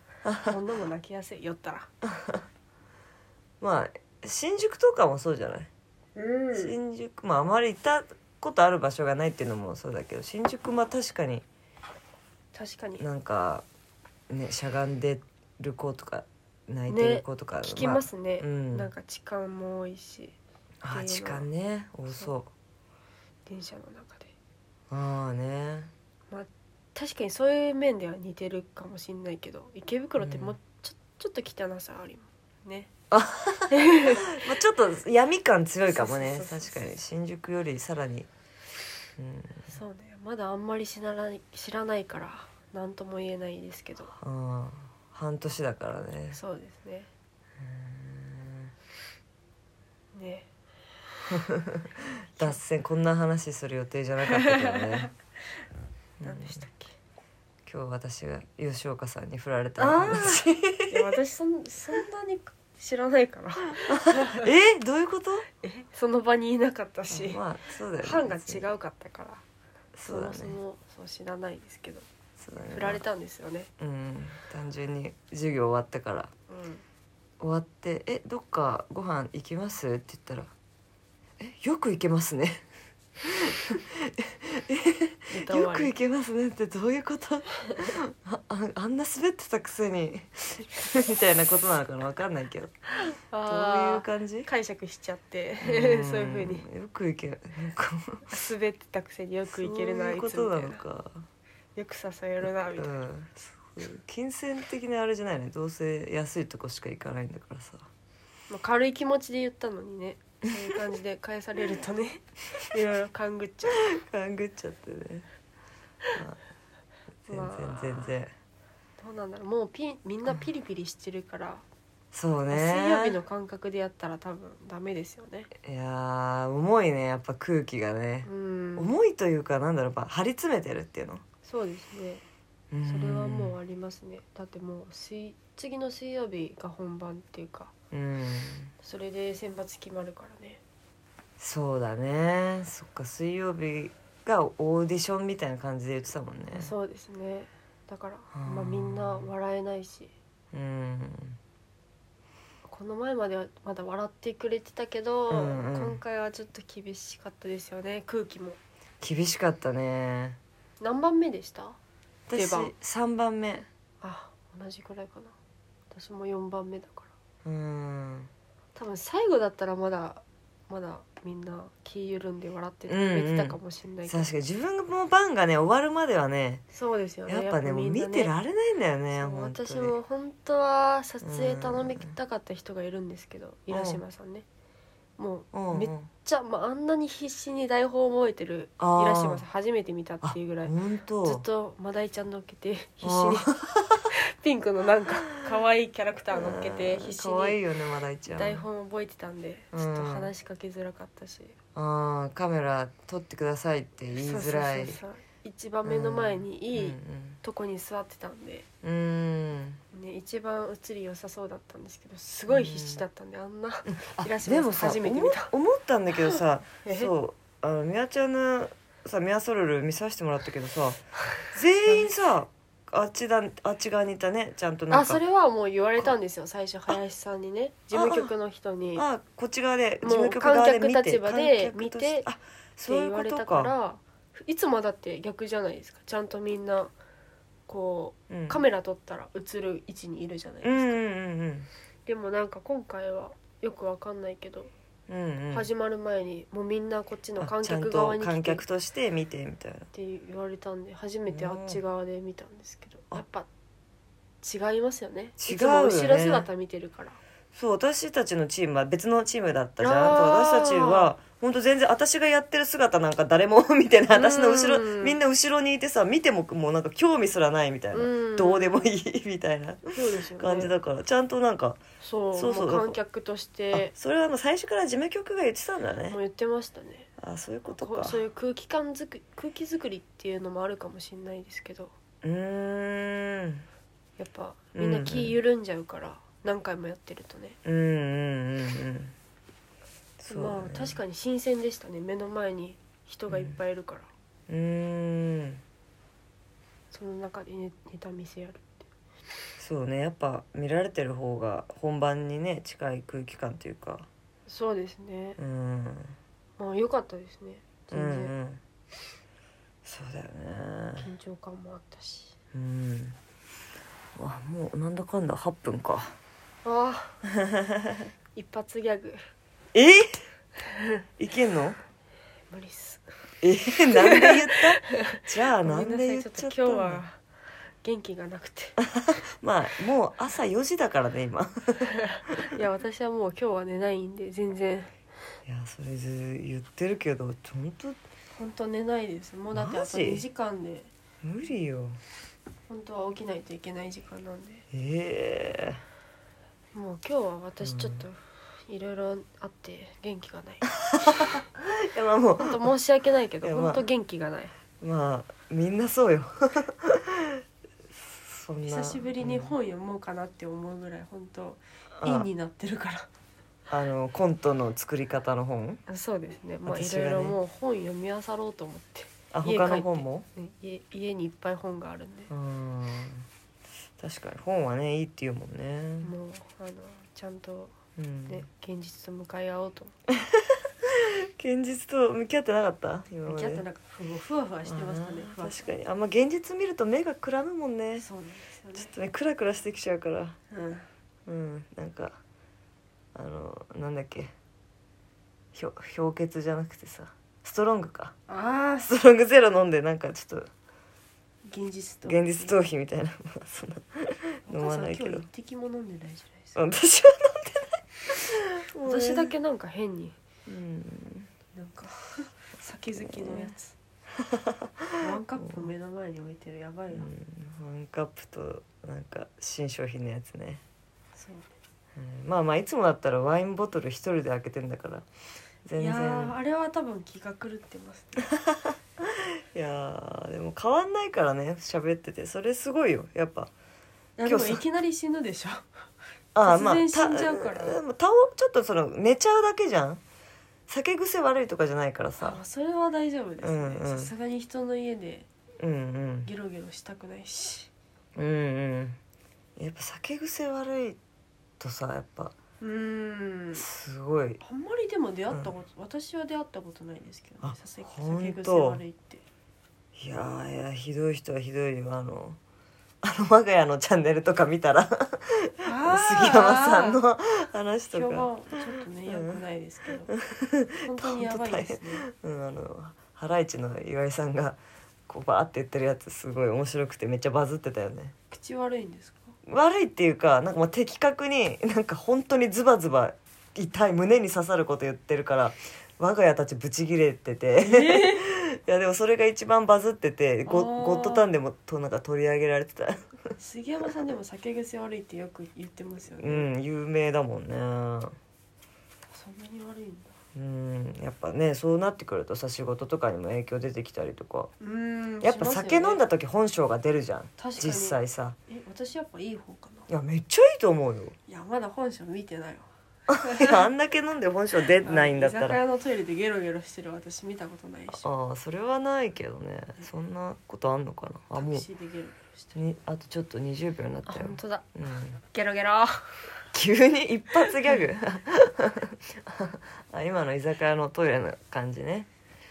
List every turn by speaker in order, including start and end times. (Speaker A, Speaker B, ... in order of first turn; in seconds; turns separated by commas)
Speaker A: 0.2-0.5, Speaker B: 0.5-1.9, Speaker A: 3.6-5.7, Speaker B: 6.2-6.7, Speaker A: 6.5-11.4, Speaker B: 12.5-13.0, Speaker A: 13.0-13.7, Speaker A: 14.3-18.9, Speaker B: 16.9-20.4, Speaker A: 20.8-22.5, Speaker B: 20.9-21.5, Speaker B: 22.1-22.3, Speaker B: 23.4-24.3, Speaker A: 24.9-25.9, Speaker B: 26.3-32.9, Speaker A: 30.2-30.6, Speaker A: 33.1-38.3, Speaker B: 33.7-34.5, Speaker B: 35.8-37.0, Speaker A: 39.2-39.7, Speaker B: 39.7-44.1, Speaker A: 44.2-46.4, Speaker B: 46.3-47.1, Speaker A: 47.6-48.7, Speaker B: 50.1-50.5, Speaker A: 51.4-55.1, Speaker B: 54.4-55.1, Speaker A: 56.2-56.6, Speaker B: 56.2-57.0, Speaker A: 57.6-61.1, Speaker B: 59.8-64.5, Speaker A: 64.0-65.5, Speaker B: 65.6-67.4, Speaker A: 67.1-68.6, Speaker B: 68.0-69.4, Speaker A: 70.0-70.6, Speaker B: 70.0-72.1, Speaker A: 72.4-73.0, Speaker B: 72.7-73.7, Speaker A: 73.8-76.3, Speaker B: 76.5-76.8, Speaker A: 77.4-80.5, Speaker A: 81.4-82.6, Speaker A: 83.2-92.8, Speaker B: 85.3-85.9, Speaker B: 93.3-96.7, Speaker A: 93.4-94.5, Speaker A: 95.6-98.3, Speaker B: 98.3-100.8, Speaker A: 99.5-101.2, Speaker B: 101.8-102.9, Speaker A: 102.8-107.8, Speaker B: 108.5-113.8, Speaker A: 113.7-115.3, Speaker A: 117.2-118.3, Speaker B: 117.3-118.1, Speaker B: 119.0-121.6, Speaker A: 122.1-123.2, Speaker B: 122.5-125.5, Speaker A: 125.6-131.2, Speaker B: 128.2-128.9, Speaker B: 131.4-132.2, Speaker A: 132.7-133.6, Speaker B: 132.8-137.7, Speaker A: 137.9-138.7, Speaker B: 138.8-140.6, Speaker A: 141.4-146.7, Speaker B: 146.5-150.1, Speaker A: 148.3-149.3, Speaker A: 150.5-151.4, Speaker B: 152.6-158.6, Speaker A: 155.3-156.0, Speaker A: 159.0-160.4, Speaker B: 160.8-161.8, Speaker A: 162.3-163.7, Speaker B: 162.3-162.7, Speaker B: 164.0-165.3, Speaker B: 165.9-167.1, Speaker A: 167.4-168.3, Speaker B: 168.7-174.3, Speaker A: 172.9-176.6, Speaker B: 176.7-178.3, Speaker A: 177.2-180.0, Speaker B: 179.2-184.4, Speaker A: 181.2-182.1, Speaker A: 183.7-184.0, Speaker B: 185.2-193.5, Speaker A: 185.5-186.1, Speaker A: 188.8-189.4, Speaker A: 190.2-191.4, Speaker A: 193.0-194.1, Speaker B: 194.1-197.6, Speaker A: 196.3-198.6, Speaker B: 198.3-201.6, Speaker A: 199.7-200.3, Speaker A: 201.7-205.0, Speaker B: 204.1-208.7, Speaker A: 205.8-207.4, Speaker A: 208.8-209.8, Speaker B: 209.9-215.5, Speaker A: 212.5-213.0, Speaker A: 213.9-225.2, Speaker B: 216.2-217.1, Speaker B: 221.8-222.1, Speaker B: 224.9-229.1, Speaker A: 227.9-228.3, Speaker A: 228.9-233.7, Speaker B: 230.0-232.3, Speaker B: 232.8-236.9, Speaker B: 237.7-240.9, Speaker A: 238.3-238.6, Speaker A: 240.6-241.7, Speaker B: 242.1-244.7, Speaker A: 245.1-245.7, Speaker B: 245.5-248.6, Speaker A: 247.4-249.9, Speaker B: 249.9-253.5, Speaker A: 251.3-251.8, Speaker B: 254.4-257.2, Speaker A: 255.4-256.5, Speaker A: 257.5-271.8, Speaker B: 259.8-261.1, Speaker B: 264.1-265.2, Speaker B: 267.9-268.9, Speaker B: 269.8-270.8, Speaker B: 272.0-273.9, Speaker A: 272.3-273.0, Speaker A: 273.7-276.2, Speaker B: 276.1-277.1, Speaker A: 277.2-278.2, Speaker B: 277.7-281.9, Speaker A: 282.2-283.6, Speaker B: 284.2-287.6, Speaker A: 284.7-285.4, Speaker A: 287.6-289.1, Speaker A: 290.2-291.0, Speaker B: 290.3-294.1, Speaker A: 293.3-293.6, Speaker A: 294.5-295.6, Speaker B: 296.9-298.9, Speaker A: 299.6-304.1, Speaker B: 304.5-305.4, Speaker A: 305.4-306.1, Speaker B: 306.6-308.3, Speaker A: 307.9-308.6, Speaker A: 309.8-311.1, Speaker B: 311.0-312.3, Speaker A: 312.5-313.1, Speaker A: 314.1-316.1, Speaker B: 316.6-317.2, Speaker A: 317.4-317.9, Speaker B: 318.3-319.2, Speaker A: 319.7-320.2, Speaker B: 320.6-321.0, Speaker A: 321.2-321.8, Speaker B: 322.5-323.0, Speaker A: 323.4-327.0, Speaker B: 323.9-327.2, Speaker B: 327.8-328.8, Speaker A: 328.9-332.4, Speaker B: 331.9-334.9, Speaker A: 335.4-338.0, Speaker B: 338.3-340.9, Speaker A: 339.5-340.2, Speaker A: 341.2-342.0, Speaker B: 342.7-344.6, Speaker A: 344.7-345.8, Speaker B: 346.7-350.8, Speaker A: 347.6-348.1, Speaker A: 350.9-352.7, Speaker B: 352.4-354.5, Speaker A: 353.4-353.8, Speaker A: 354.8-357.4, Speaker A: 358.1-359.5, Speaker B: 358.6-363.1, Speaker A: 362.0-362.3, Speaker A: 363.7-365.8, Speaker B: 365.9-372.3, Speaker A: 366.6-367.4, Speaker A: 369.3-370.2, Speaker A: 372.3-373.2, Speaker A: 374.0-376.1, Speaker B: 376.0-377.8, Speaker A: 378.0-378.5, Speaker B: 378.3-379.9, Speaker A: 380.2-383.6, Speaker B: 383.2-385.7, Speaker A: 384.6-388.1, Speaker B: 388.0-388.9, Speaker A: 388.7-390.4, Speaker B: 390.5-390.9, Speaker A: 391.2-392.2, Speaker A: 393.1-394.3, Speaker A: 395.5-398.1, Speaker B: 398.3-398.9, Speaker A: 398.8-400.5, Speaker B: 401.4-402.6, Speaker A: 402.1-405.2, Speaker B: 404.5-406.6, Speaker A: 406.5-409.3, Speaker B: 408.7-410.2, Speaker A: 410.5-411.3, Speaker B: 411.5-413.8, Speaker A: 413.2-413.5, Speaker A: 414.2-415.7, Speaker B: 415.0-417.1, Speaker A: 416.9-420.6, Speaker B: 421.1-421.5, Speaker A: 421.9-425.1, Speaker A: 425.6-426.4, Speaker B: 425.8-428.2, Speaker A: 428.4-433.5, Speaker B: 434.2-435.7, Speaker A: 434.2-434.6, Speaker A: 436.3-440.0, Speaker B: 436.4-437.8, Speaker A: 440.7-442.4, Speaker B: 442.2-445.3, Speaker A: 443.4-444.1, Speaker A: 445.6-446.3, Speaker B: 446.2-447.7, Speaker A: 448.1-449.0, Speaker A: 449.6-451.0, Speaker A: 451.6-452.3, Speaker B: 452.6-453.6, Speaker A: 453.5-454.4, Speaker B: 454.4-459.2, Speaker A: 457.4-458.8, Speaker A: 459.9-462.4, Speaker A: 463.0-469.4, Speaker B: 465.6-467.0, Speaker B: 467.9-470.1, Speaker A: 470.1-478.1, Speaker B: 470.8-472.1, Speaker B: 478.3-479.4, Speaker A: 479.4-493.0, Speaker B: 487.6-488.3, Speaker B: 490.4-491.3, Speaker B: 493.4-496.5, Speaker A: 496.2-498.1, Speaker B: 499.1-500.1, Speaker A: 500.3-504.5, Speaker B: 504.6-506.1, Speaker A: 505.2-508.4, Speaker B: 507.4-509.9, Speaker A: 509.9-511.1, Speaker B: 511.3-513.7, Speaker A: 513.1-515.6, Speaker B: 514.8-518.1, Speaker A: 518.0-521.6, Speaker B: 521.4-522.5, Speaker A: 522.5-525.2, Speaker B: 524.0-524.7, Speaker B: 525.3-526.3, Speaker A: 526.5-532.1